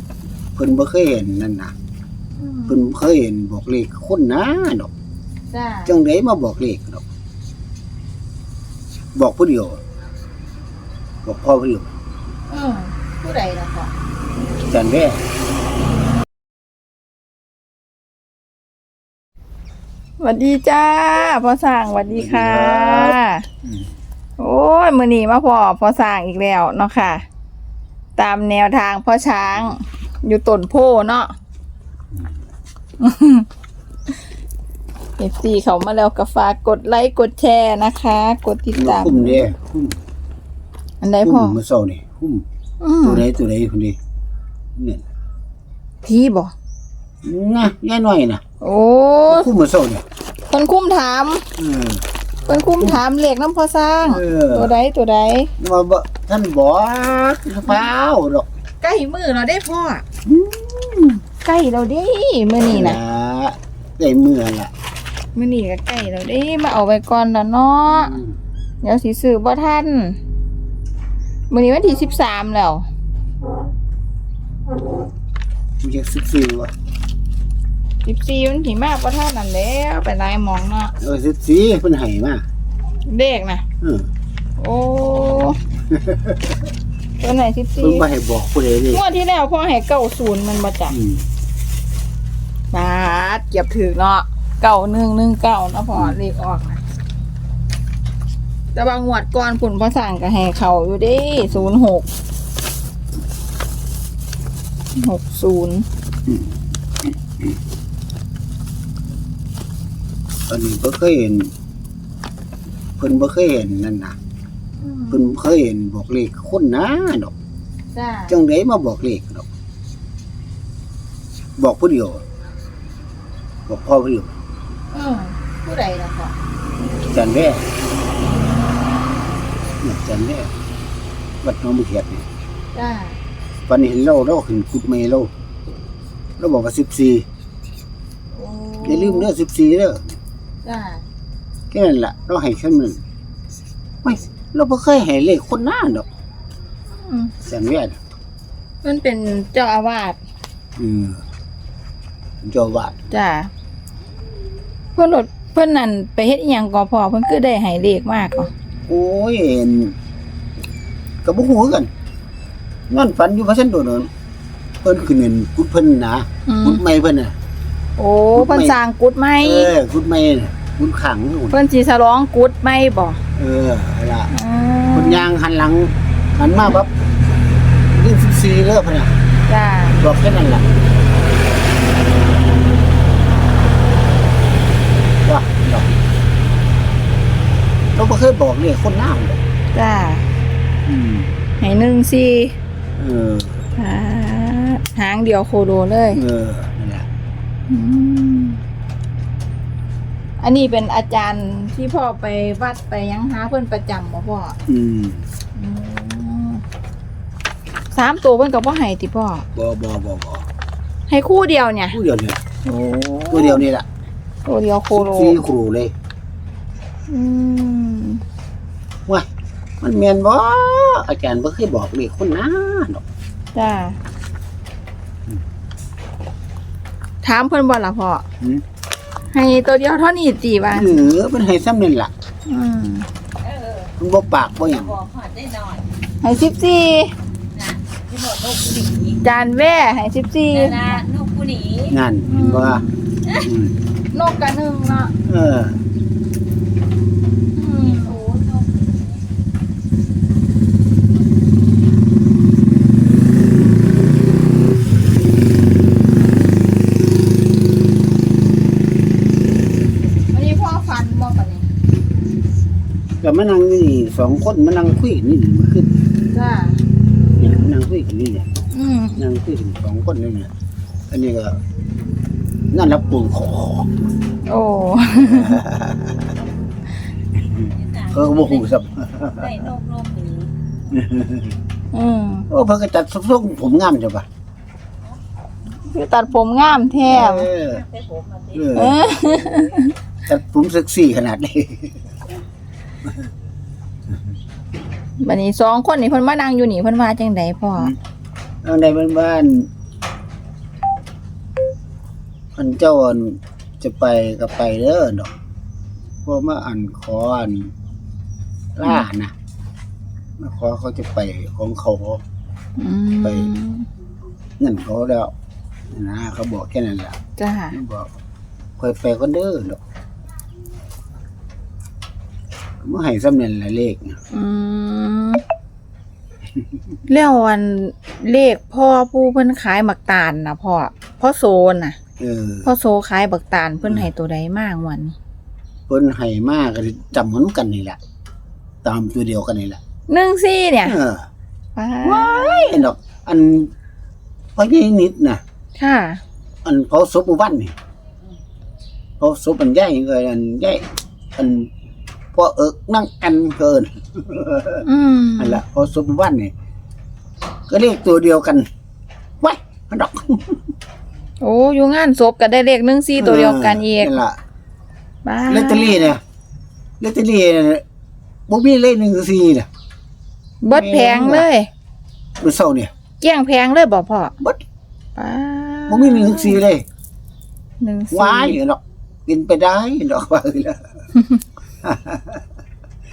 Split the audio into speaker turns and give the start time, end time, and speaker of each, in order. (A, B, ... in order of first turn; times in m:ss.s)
0:00.6-0:01.7 A
0:02.4-0:02.8 B
0:02.7-0:04.9 A
0:05.5-0:05.9 B
0:05.9-0:07.0 A
0:09.2-0:09.8 A
0:11.2-0:11.9 A
0:12.5-0:13.9 B
0:14.7-0:15.2 A
0:20.2-0:23.5 B
0:22.1-0:23.9 A
0:24.4-0:27.3 B
0:28.2-0:31.3 B
0:33.0-0:33.5 B
0:35.2-0:39.5 B
0:38.8-0:40.0 A
0:41.0-0:41.6 B
0:41.2-0:42.4 A
0:42.8-0:43.2 B
0:43.0-0:44.0 A
0:44.8-0:45.0 A
0:46.0-0:46.5 B
0:47.2-0:48.4 A
0:48.6-0:49.5 B
0:49.3-0:50.0 A
0:50.5-0:51.5 B
0:51.6-0:52.0 A
0:52.5-0:55.5 B
0:54.0-0:54.7 A
0:55.6-0:58.5 A
0:58.8-1:00.0 B
1:00.3-1:01.2 A
1:01.4-1:03.0 B
1:02.6-1:04.7 A
1:05.4-1:08.2 B
1:07.9-1:08.4 A
1:08.8-1:10.2 B
1:11.5-1:12.9 B
1:15.8-1:16.7 A
1:18.0-1:21.0 B
1:21.0-1:22.5 A
1:23.1-1:23.6 B
1:23.8-1:24.1 A
1:24.6-1:25.6 B
1:25.9-1:26.5 A
1:27.2-1:28.0 B
1:27.8-1:29.0 A
1:28.9-1:31.0 B
1:30.9-1:31.3 A
1:32.7-1:36.8 B
1:38.7-1:42.1 B
1:45.0-1:45.9 B
1:50.5-1:51.5 A
1:53.0-1:54.2 A
1:54.8-1:55.2 B
1:55.1-1:57.3 A
1:57.9-1:58.4 B
1:58.3-1:59.5 A
2:01.6-2:02.2 A
2:03.7-2:04.4 A
2:04.9-2:06.4 B
2:07.1-2:07.7 A
2:09.8-2:10.5 A
2:11.4-2:12.3 A
2:12.7-2:13.2 B
2:13.7-2:15.3 A
2:16.4-2:17.3 A
2:18.3-2:19.3 B
2:18.8-2:20.2 A
2:20.6-2:21.0 B
2:21.7-2:23.0 A
2:24.0-2:26.1 A
2:27.0-2:27.3 B
2:27.4-2:28.0 A
2:28.8-2:30.2 B
2:30.8-2:31.2 A
2:32.4-2:33.0 A
2:33.1-2:33.5 B
2:35.0-2:38.5 B
2:38.9-2:40.0 A
2:41.2-2:41.9 A
2:42.9-2:44.1 A
2:44.8-2:47.4 A
2:46.5-2:46.8 B
2:48.0-2:49.8 B
2:48.4-2:48.8 A
2:49.4-2:51.6 A
2:51.5-2:53.2 B
2:53.4-2:54.3 A
2:54.3-2:55.3 B
2:54.9-2:56.9 A
2:57.9-2:59.1 A
2:59.5-3:00.0 B
3:00.0-3:00.7 A
3:05.2-3:06.0 A
3:08.0-3:09.4 A
3:09.7-3:10.3 B
3:10.9-3:11.4 A
3:11.6-3:12.6 B
3:13.0-3:13.7 A
3:13.8-3:16.2 B
3:16.1-3:17.1 A
3:17.7-3:18.6 B
3:20.4-3:24.6 B
3:24.7-3:25.3 A
3:25.6-3:26.6 B
3:27.9-3:29.4 B
3:29.6-3:30.4 A
3:31.1-3:32.0 B
3:31.9-3:32.4 A
3:32.6-3:33.6 B
3:33.3-3:33.9 A
3:34.5-3:35.4 B
3:34.9-3:35.9 A
3:37.1-3:38.2 B
3:39.8-3:43.0 A
3:43.5-3:44.0 B
3:47.2-3:48.2 B
3:49.3-3:51.1 B
3:50.7-3:52.1 A
3:52.5-3:53.1 B
3:53.4-3:53.9 C
3:54.0-3:55.0 A
3:55.1-3:55.8 C
3:56.2-3:57.1 B
3:57.6-3:59.1 C
3:59.2-4:01.0 B
4:01.1-4:01.8 C
4:01.9-4:03.8 A
4:02.3-4:02.9 B
4:04.1-4:05.1 B
4:05.2-4:05.8 A
4:07.6-4:08.3 B
4:08.3-4:09.0 C
4:20.3-4:21.7 B
4:23.2-4:25.9 A
4:26.3-4:26.8 B
4:27.4-4:28.5 A
4:28.7-4:29.2 B
4:29.2-4:30.5 A
4:31.1-4:31.6 A
4:32.7-4:33.9 A
4:34.4-4:35.6 B
4:35.2-4:36.3 A
4:37.4-4:39.7 A
4:39.8-4:40.4 C
4:40.9-4:41.6 A
4:41.9-4:42.5 B
4:42.5-4:44.3 A
4:45.9-4:47.5 B
4:47.1-4:47.9 A
4:48.5-4:49.1 A
4:48.7-4:50.0 B
4:50.3-4:52.0 A
4:55.2-4:57.9 B
4:58.6-4:59.7 A
5:02.6-5:05.3 A
5:06.2-5:07.7 A
5:08.8-5:09.3 A
5:10.4-5:12.2 A
5:12.8-5:13.9 B
5:13.2-5:13.5 A
5:14.6-5:15.3 A
5:15.9-5:17.2 A
5:17.4-5:17.8 B
5:17.7-5:18.1 A
5:18.8-5:19.8 A
5:22.8-5:24.2 A
5:24.3-5:25.4 B
5:27.1-5:32.0 B
5:32.2-5:32.7 A
5:32.6-5:35.2 B
5:35.9-5:38.0 A
5:38.8-5:39.8 A
5:40.1-5:41.0 B
5:40.8-5:41.3 A
5:41.8-5:42.8 B
5:42.0-5:43.7 A
5:44.6-5:45.4 A
5:45.8-5:46.2 B
5:46.6-5:47.8 A
5:49.2-5:50.8 A
5:51.4-5:51.7 A
5:52.3-5:54.8 A
5:54.8-5:55.6 B
5:55.4-5:56.5 A
5:57.7-5:58.7 A
5:59.4-6:00.6 A
6:01.4-6:04.2 B
6:03.2-6:04.4 A
6:05.2-6:06.2 B
6:05.5-6:06.2 A
6:07.0-6:07.8 A
6:08.5-6:09.7 A
6:10.6-6:11.7 B
6:10.7-6:11.5 A
6:12.4-6:12.9 A
6:13.2-6:14.3 B
6:15.2-6:16.6 B
6:15.9-6:16.8 A
6:17.8-6:18.6 B
6:18.1-6:20.8 A
6:21.8-6:22.4 A